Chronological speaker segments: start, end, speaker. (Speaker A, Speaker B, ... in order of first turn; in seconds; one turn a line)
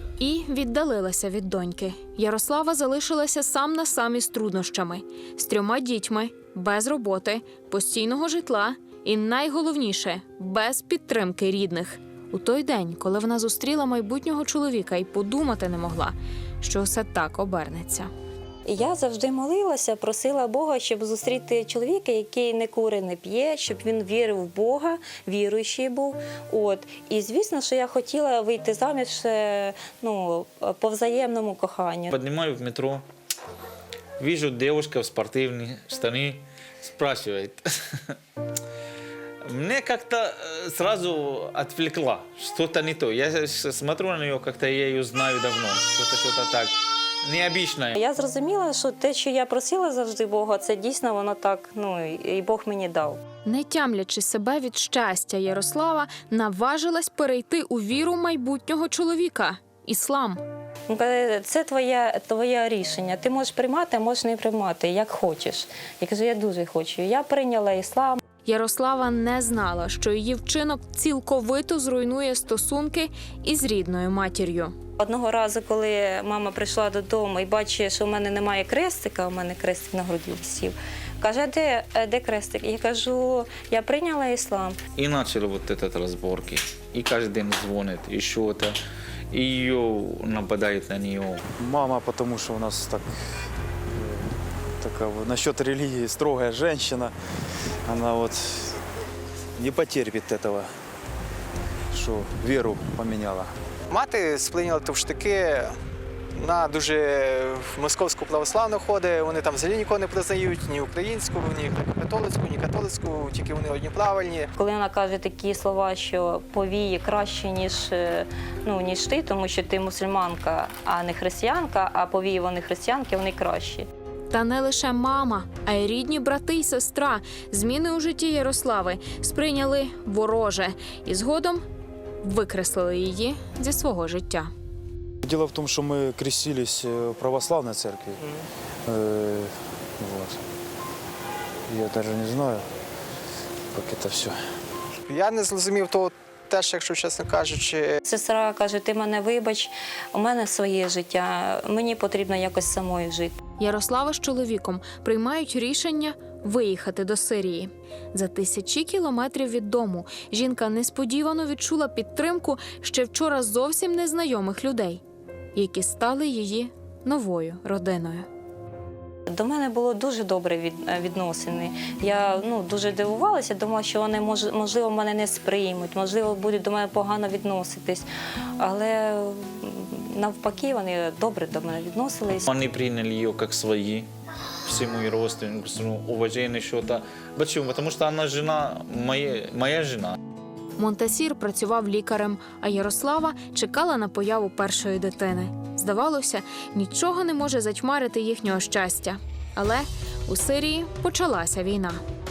Speaker A: 0.2-18.1
Speaker B: 18.7-32.2
Speaker C: 32.1-33.0
Speaker C: 34.2-38.2
Speaker C: 39.5-48.0
Speaker B: 47.9-53.2
Speaker A: 53.5-60.4
Speaker B: 60.9-68.2
Speaker A: 68.5-74.8
Speaker B: 75.0-84.8
Speaker C: 85.0-88.8
Speaker C: 89.3-91.4
Speaker D: 91.6-93.2
Speaker D: 93.9-97.1
Speaker D: 97.9-98.8
Speaker D: 99.6-100.7
Speaker D: 101.9-103.5
Speaker E: 103.9-105.8
Speaker E: 106.4-114.5
Speaker B: 114.6-123.9
Speaker A: 124.3-131.6
Speaker A: 132.2-134.5
Speaker D: 135.2-138.2
Speaker D: 138.9-140.4
Speaker D: 141.7-142.7
Speaker D: 143.7-144.4
Speaker E: 145.1-148.0
Speaker B: 148.1-153.4
Speaker A: 153.6-165.0
Speaker A: 165.6-168.3
Speaker B: 169.3-178.1
Speaker B: 178.6-182.5
Speaker C: 182.4-184.1
Speaker C: 184.7-190.2
Speaker A: 190.8-202.0